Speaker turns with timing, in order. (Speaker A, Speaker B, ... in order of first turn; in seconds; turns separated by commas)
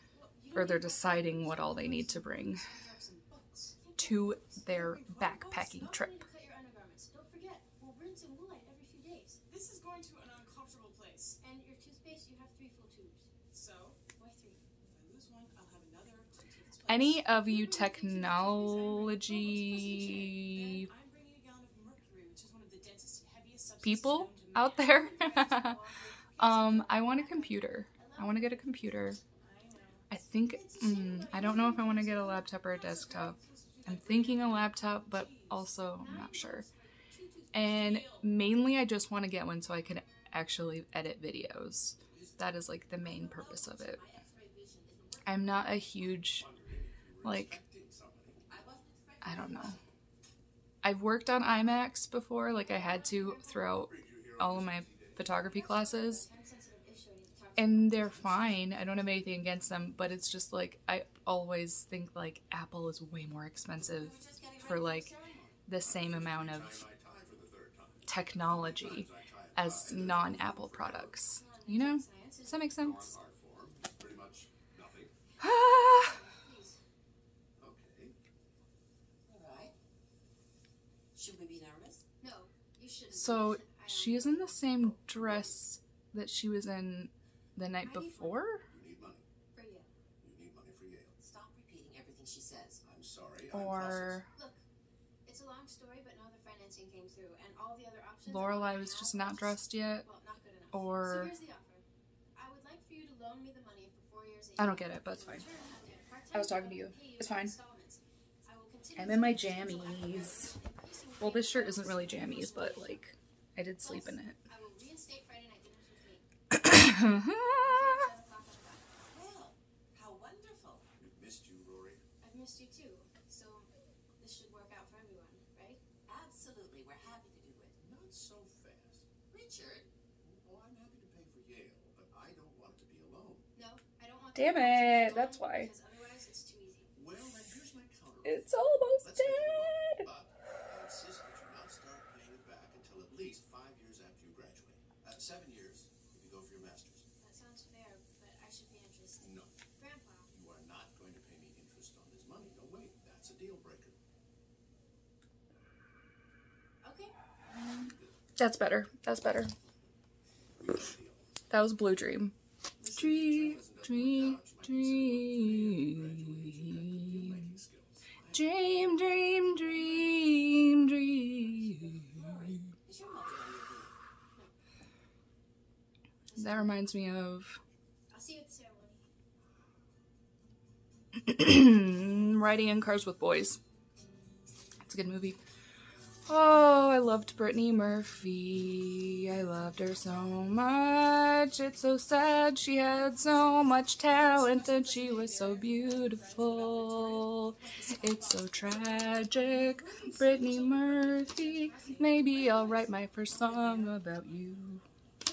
Speaker A: 0.1-2.1, Speaker B: 0.5-2.6, Speaker C: 0.9-3.8, Speaker A: 3.8-4.6, Speaker B: 4.0-6.2, Speaker C: 4.6-5.7, Speaker A: 5.7-9.4, Speaker C: 9.5-11.4, Speaker A: 11.4-13.3, Speaker C: 13.5-14.0, Speaker A: 14.1-14.6, Speaker C: 14.8-17.3, Speaker B: 16.9-20.9, Speaker A: 17.4-20.1, Speaker C: 18.8-25.1, Speaker B: 23.8-25.8, Speaker A: 24.8-29.2, Speaker B: 26.4-29.2, Speaker C: 29.4-30.1, Speaker B: 30.1-36.7, Speaker A: 30.5-32.5, Speaker C: 32.5-35.8, Speaker A: 35.9-37.5, Speaker B: 37.5-44.0, Speaker C: 37.5-38.2, Speaker D: 42.1-42.6, Speaker E: 42.9-46.1, Speaker B: 45.2-46.5, Speaker D: 46.2-48.4, Speaker B: 47.2-47.6, Speaker E: 48.5-49.9, Speaker B: 49.2-49.8, Speaker B: 50.8-56.3, Speaker A: 52.5-53.8, Speaker D: 53.8-55.4, Speaker A: 55.4-59.1, Speaker B: 57.6-65.1, Speaker E: 63.8-65.6, Speaker B: 65.7-66.9, Speaker D: 65.8-71.3, Speaker B: 68.1-73.2, Speaker A: 71.3-72.7, Speaker D: 72.7-75.1, Speaker B: 75.4-76.2, Speaker A: 75.7-76.8, Speaker D: 77.6-78.2, Speaker E: 79.3-79.7, Speaker E: 81.1-82.0, Speaker A: 82.2-84.7, Speaker B: 83.1-88.7, Speaker D: 84.7-85.6, Speaker A: 87.8-88.5, Speaker D: 88.7-89.3, Speaker A: 89.5-89.9, Speaker D: 90.2-91.2, Speaker E: 91.2-92.8, Speaker D: 92.8-94.2, Speaker B: 93.5-94.3, Speaker A: 94.3-94.6, Speaker A: 95.2-113.1, Speaker B: 98.2-100.1, Speaker B: 100.7-101.3, Speaker B: 104.6-105.5, Speaker B: 106.3-107.6, Speaker B: 109.0-110.5, Speaker B: 111.2-114.4, Speaker A: 113.8-116.2, Speaker B: 116.5-118.1, Speaker A: 116.8-118.9, Speaker E: 119.1-120.9, Speaker D: 121.0-122.0, Speaker A: 122.2-125.8, Speaker E: 126.1-127.8, Speaker D: 127.8-129.1, Speaker E: 129.3-129.9, Speaker D: 130.2-133.5, Speaker A: 133.5-136.9, Speaker B: 134.3-135.7, Speaker D: 136.9-147.1, Speaker B: 138.2-140.1, Speaker A: 147.2-150.3, Speaker D: 149.2-149.6, Speaker D: 150.3-154.0, Speaker A: 156.8-157.1, Speaker D: 157.7-158.2, Speaker B: 158.4-159.5, Speaker D: 160.6-161.7, Speaker B: 161.5-162.3, Speaker D: 162.8-168.8, Speaker B: 162.9-167.6, Speaker B: 168.3-172.7, Speaker D: 171.4-172.3, Speaker E: 172.8-173.9, Speaker A: 176.3-176.8, Speaker B: 176.3-177.6, Speaker A: 178.1-179.0, Speaker B: 181.2-183.6, Speaker B: 184.8-185.4, Speaker B: 186.3-204.8, Speaker C: 194.0-204.0, Speaker A: 201.6-202.4